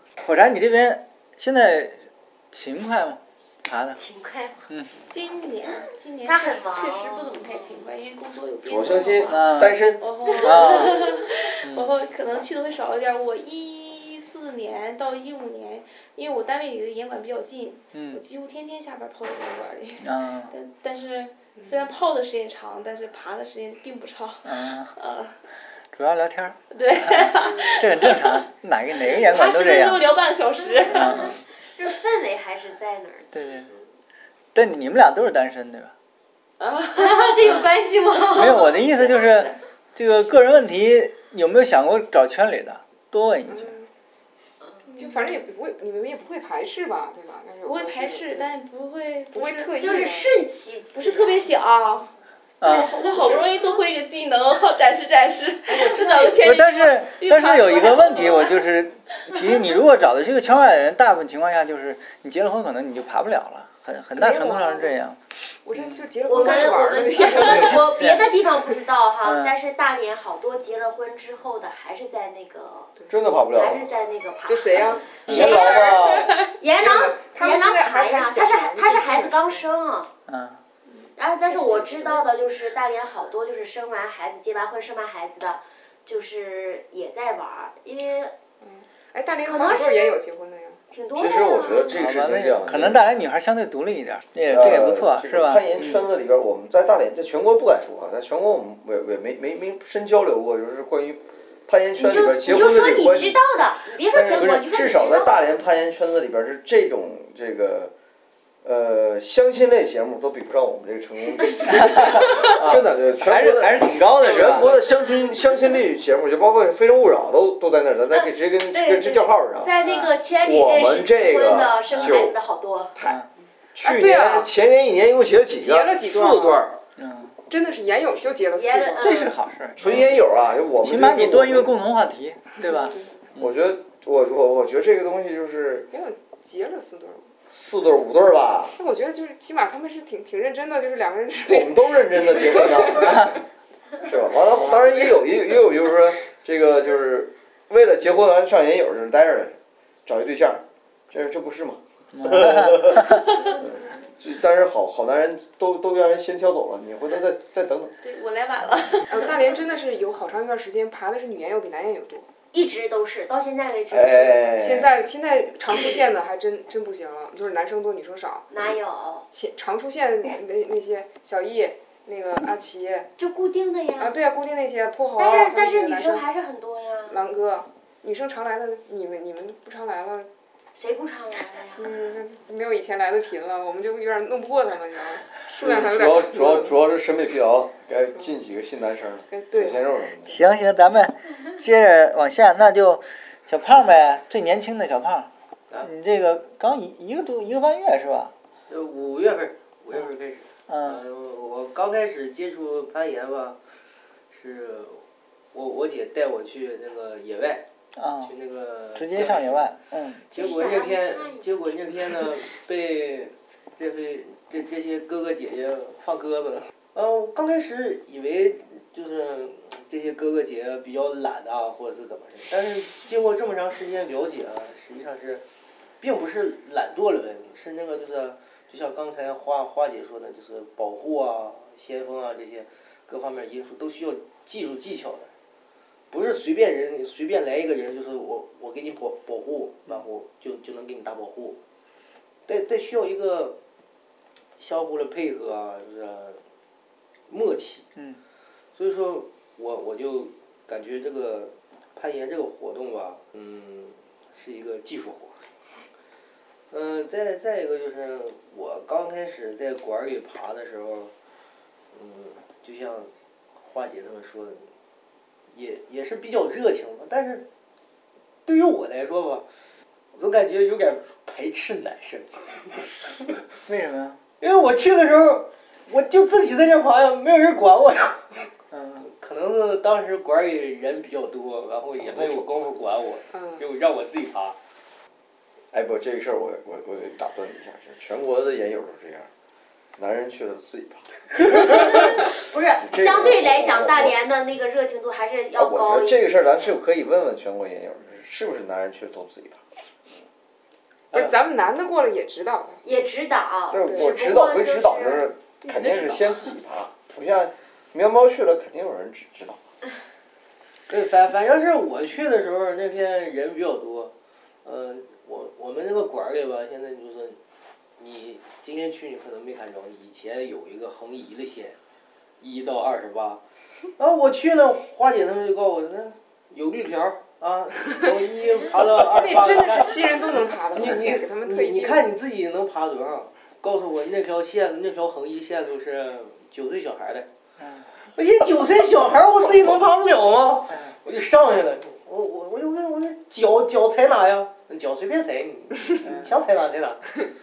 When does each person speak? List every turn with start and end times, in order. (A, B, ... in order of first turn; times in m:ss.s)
0:00.2-0:04.0 A
0:04.0-0:04.7 B
0:05.1-0:25.4 C
0:06.2-0:07.6 B
0:08.6-0:10.0 D
0:09.3-0:09.8 A
0:10.3-0:11.2 B
0:10.4-0:11.0 A
0:11.6-0:11.9 A
0:17.9-0:18.2 A
0:20.0-0:20.5 A
0:24.4-0:24.9 A
0:25.9-0:30.1 A
0:26.7-0:31.4 C
0:30.9-0:31.4 A
0:30.9-0:33.3 B
0:33.3-0:33.7 A
0:34.5-0:35.9 A
0:36.6-0:37.4 C
0:36.9-0:38.8 B
0:38.3-0:43.8 A
0:38.4-0:39.6 C
0:43.5-0:43.9 E
0:44.9-0:45.4 C
0:44.9-0:48.5 E
0:47.6-0:50.1 C
0:49.3-0:50.3 E
0:49.8-0:51.5 B
0:50.9-0:58.6 C
0:52.6-0:52.9 A
0:55.7-0:56.4 E
0:56.4-1:05.2 A
1:04.1-1:05.0 E
1:05.6-1:07.9 E
1:05.7-1:06.1 A
1:06.2-1:12.9 B
1:07.4-1:08.3 A
1:09.2-1:09.5 A
1:13.1-1:13.9 D
1:13.5-1:20.1 B
1:14.5-1:16.0 E
1:14.8-1:15.6 A
1:15.2-1:16.3 D
1:15.9-1:16.5 C
1:16.8-1:19.6 E
1:20.3-1:20.6 A
1:21.2-1:28.3 B
1:21.4-1:22.4 E
1:28.6-1:30.8 E
1:29.4-1:30.2 B
1:30.9-1:32.0 B
1:31.1-1:33.0 D
1:31.9-1:36.0 A
1:34.5-1:43.4 D
1:42.0-1:45.4 B
1:44.1-1:47.9 D
1:48.6-1:59.7 D
1:51.8-1:54.7 A
1:58.1-2:02.9 B
1:59.8-2:00.1 A
2:00.4-2:02.3 D
2:01.9-2:02.2 A
2:03.0-2:03.2 D
2:03.0-2:03.3 A
2:03.7-2:06.8 D
2:03.8-2:04.5 E
2:05.6-2:06.6 E
2:07.0-2:07.3 A
2:07.5-2:09.2 E
2:08.5-2:09.4 B
2:09.0-2:10.2 A
2:09.8-2:11.7 D
2:10.8-2:13.6 A
2:12.6-2:13.2 E
2:13.3-2:15.9 D
2:15.9-2:17.3 E
2:17.5-2:18.8 D
2:18.8-2:23.3 E
2:21.4-2:23.4 D
2:24.0-2:37.9 D
2:32.1-2:33.2 A
2:38.0-2:39.4 C
2:39.1-2:42.3 E
2:42.5-2:44.4 B
2:43.9-2:44.9 D
2:44.6-2:48.5 E
2:48.5-2:49.2 B
2:49.3-2:53.1 E
2:53.2-2:54.1 B
2:54.0-2:56.2 E
2:55.2-2:57.2 B
2:57.1-3:00.3 E
3:00.8-3:01.9 B
3:01.8-3:06.8 E
3:05.6-3:10.4 D
3:09.3-3:09.9 E
3:10.3-3:15.3 A
3:15.8-3:18.3 A
3:18.7-3:23.6 F
3:20.7-3:21.0 A
3:24.3-3:27.7 F
3:27.9-3:28.3 A
3:28.2-3:29.8 F
3:28.9-3:30.2 A
3:30.3-3:45.4 F
3:30.3-3:31.8 B
3:46.0-3:55.3 F
3:56.1-4:01.6 F
4:02.4-4:03.6 F
4:04.6-4:06.4 F
4:07.3-4:07.9 F
4:08.8-4:15.4 F
4:16.7-4:21.1 F
4:21.9-4:24.7 F
4:25.5-4:27.4 F
4:28.4-4:29.4 F
4:30.1-4:33.0 F
4:33.6-4:34.2 A
4:34.4-4:44.6 F
4:38.7-4:39.1 A
4:42.0-4:42.4 D
4:43.3-4:43.6 E
4:45.7-4:49.3 D
4:50.0-4:54.2 D
4:51.9-4:56.2 B
4:55.6-4:59.6 D
5:01.1-5:02.8 E
5:02.8-5:05.3 B
5:03.7-5:09.6 D
5:03.9-5:04.1 E
5:10.9-5:17.4 F
5:18.0-5:21.8 F
5:22.4-5:23.4 F
5:24.0-5:37.3 F
5:29.1-5:32.1 E
5:38.1-5:47.1 F